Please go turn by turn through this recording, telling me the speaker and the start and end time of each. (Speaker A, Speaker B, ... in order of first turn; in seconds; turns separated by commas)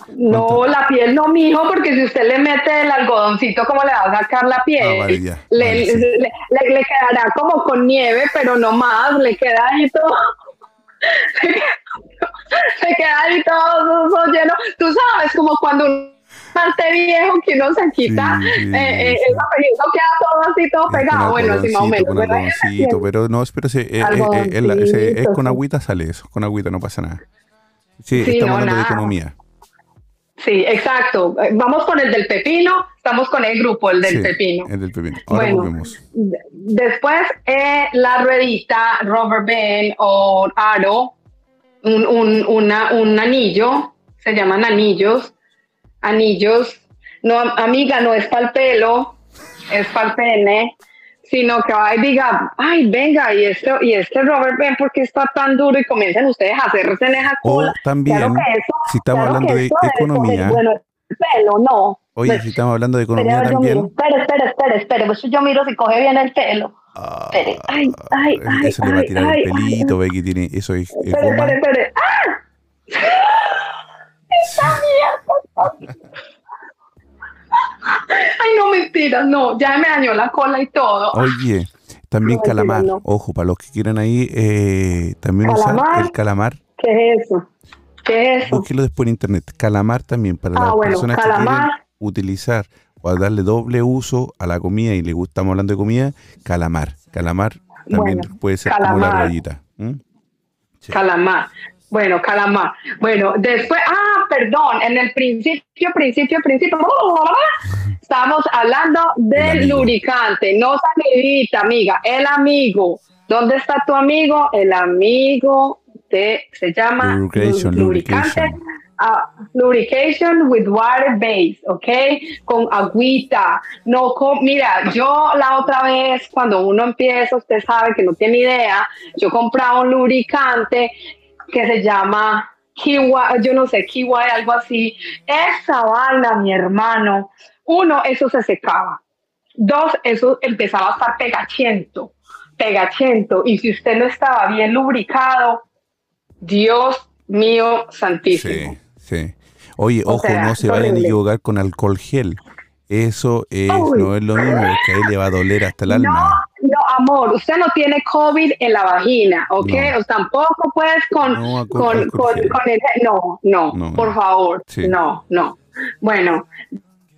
Speaker A: 0.1-10.3, Speaker B: 0.3-0.6, Speaker B: 4.8-6.1, Speaker A: 11.0-23.0, Speaker B: 18.0-19.4, Speaker B: 20.9-27.2, Speaker A: 24.0-25.6, Speaker B: 28.0-29.3, Speaker A: 28.1-29.1, Speaker A: 30.4-34.7, Speaker B: 34.0-36.0, Speaker A: 35.3-41.1, Speaker A: 41.8-45.3, Speaker A: 46.0-49.1, Speaker A: 49.7-50.7, Speaker A: 51.2-62.5, Speaker B: 57.4-60.6, Speaker B: 62.1-63.9, Speaker A: 63.1-66.7, Speaker B: 66.9-71.6, Speaker A: 67.3-69.9, Speaker A: 71.0-72.4, Speaker A: 72.9-73.7, Speaker A: 74.3-75.9, Speaker B: 74.5-74.8, Speaker A: 77.9-81.3, Speaker B: 81.1-86.6, Speaker A: 82.2-83.0, Speaker A: 85.4-86.1, Speaker A: 86.8-87.4, Speaker A: 88.0-88.7, Speaker B: 88.5-100.0, Speaker A: 90.5-91.8, Speaker A: 97.9-99.3, Speaker A: 100.9-107.5, Speaker A: 108.0-130.9, Speaker B: 109.3-109.9, Speaker B: 117.0-118.6, Speaker A: 131.5-139.0, Speaker A: 139.6-145.6, Speaker A: 146.4-148.8, Speaker B: 148.3-156.4, Speaker A: 150.1-151.2, Speaker A: 153.7-154.7, Speaker A: 155.9-166.5, Speaker B: 159.6-159.9, Speaker B: 161.3-162.6, Speaker B: 163.7-164.1, Speaker B: 164.7-164.9